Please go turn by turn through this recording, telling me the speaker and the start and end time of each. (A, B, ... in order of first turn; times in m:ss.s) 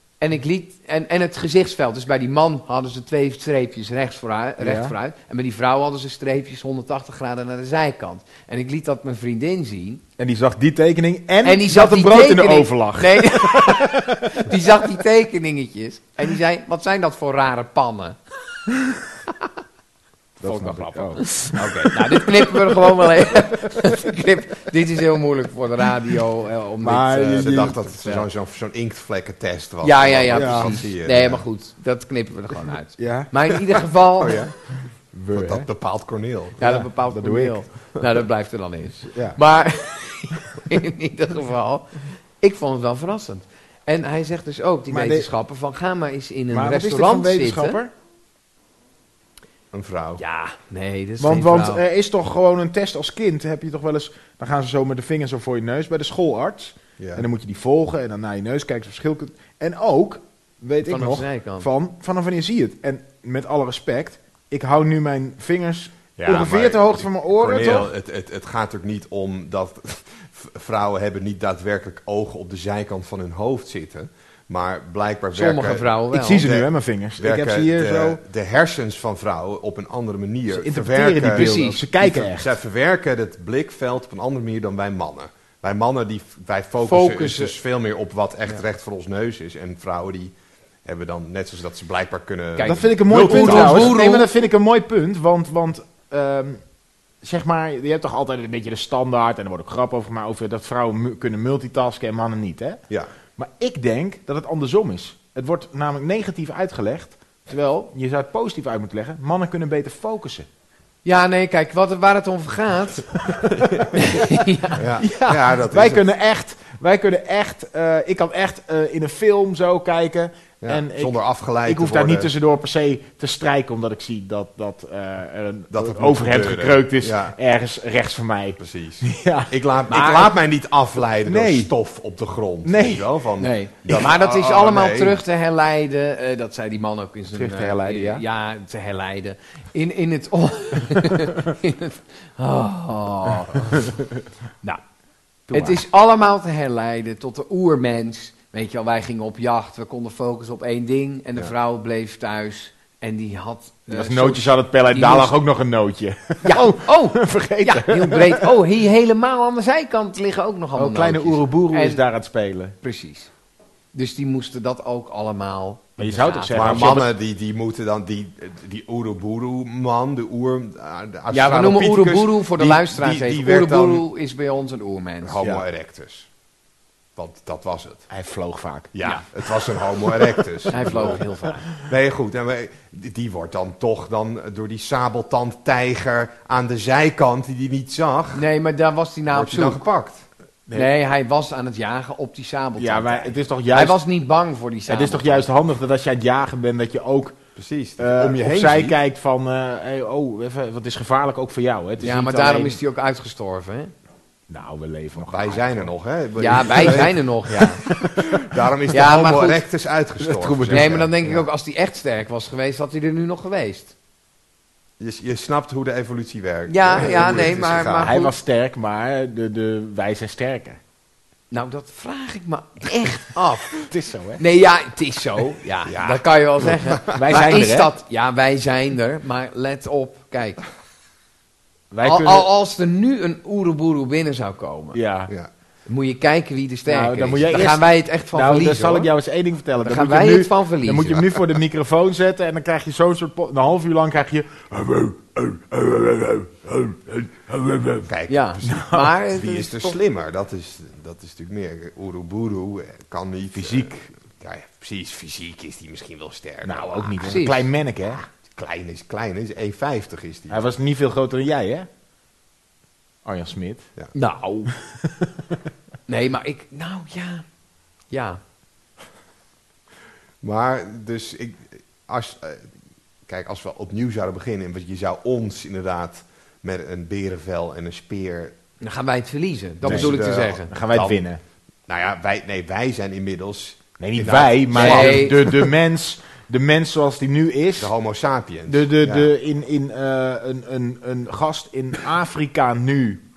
0:00.2-0:10.0 A
0:04.6-0:04.9 B
0:10.2-0:14.4 B
0:11.4-0:18.2 A
0:20.4-0:21.4 B
0:20.4-0:27.6 A
0:21.6-0:22.0 C
0:26.8-0:28.3 B
0:27.3-0:31.4 C
0:29.8-0:34.4 A
0:30.3-0:30.8 B
0:33.0-0:33.3 B
0:34.2-0:36.6 C
0:35.1-0:35.7 B
0:36.6-0:47.8 A
0:36.6-0:37.6 B
0:39.1-0:39.4 B
0:44.9-0:45.3 B
0:46.5-0:47.9 B
0:49.7-0:50.2 C
0:50.2-0:51.8 A
0:51.2-1:07.9 B
0:57.0-0:57.2 C
1:00.9-1:01.7 A
1:06.2-1:34.0 C
1:15.3-1:16.4 A
1:16.1-1:18.2 B
1:20.5-1:22.5 B
1:21.3-1:21.8 A
1:26.8-1:27.5 A
1:32.6-1:34.3 A
1:32.6-1:36.6 B
1:37.2-1:42.8 B
1:43.4-1:50.5 B
1:51.0-1:53.2 A
1:54.0-1:54.8 A
1:54.8-1:56.0 C
1:55.0-2:09.5 B
2:00.6-2:02.3 C
2:05.7-2:07.4 C
2:08.6-2:15.2 C
2:09.9-2:10.3 A
2:11.2-2:11.7 B
2:12.6-2:13.0 B
2:13.4-2:23.8 A
2:17.3-2:18.2 B
2:25.5-2:35.3 A
2:25.5-2:25.8 B
2:33.9-2:38.5 B
2:36.4-2:42.0 A
2:40.7-2:42.7 B
2:42.8-2:43.3 A
2:43.9-2:47.1 A
2:46.0-2:47.1 B
2:46.5-2:54.0 C
2:51.3-2:55.4 A
2:55.2-2:56.3 C
2:57.2-2:58.1 C
2:58.1-2:58.9 B
2:58.9-3:08.4 C
3:00.7-3:01.6 A
3:00.8-3:01.2 B
3:08.3-3:09.8 A
3:09.3-3:10.2 C
3:10.7-3:15.4 A
3:12.8-3:14.0 B
3:14.9-3:17.4 B
3:17.6-3:19.0 C
3:18.0-3:22.8 B
3:22.0-3:23.9 A
3:24.5-3:25.9 B
3:25.2-3:31.5 C
3:26.4-3:27.8 A
3:26.7-3:27.1 B
3:27.6-3:28.6 B
3:28.9-3:29.6 A
3:30.2-3:31.1 B
3:30.7-3:33.9 A
3:35.0-3:38.1 C
3:36.7-3:38.3 A
3:37.0-3:40.8 B
3:41.5-3:43.8 A
3:43.9-3:44.4 B
3:44.4-3:50.6 A
3:45.9-3:47.4 C
3:47.1-3:47.9 B
3:51.9-3:52.5 B
3:52.0-3:55.0 A
3:54.9-3:55.3 B
3:55.9-3:59.1 A
3:56.9-4:08.1 B
3:59.8-4:01.2 A
4:08.0-4:17.4 C
4:08.3-4:10.0 A
4:08.6-4:09.1 B
4:13.5-4:13.9 B
4:16.6-4:18.2 B
4:17.2-4:17.7 A
4:18.1-4:20.6 C
4:20.5-4:21.9 B
4:23.2-4:23.9 B
4:24.1-4:24.7 A
4:24.9-4:25.3 B
4:26.1-4:27.4 A
4:28.1-4:28.4 A
4:30.4-4:32.7 C
4:33.2-4:38.6 C
4:38.8-4:40.7 A
4:39.8-4:41.3 C
4:39.8-4:41.4 B
4:41.9-4:45.7 C
4:44.0-4:47.9 B
4:44.7-4:45.4 A
4:47.8-4:49.3 C
4:48.7-4:53.2 B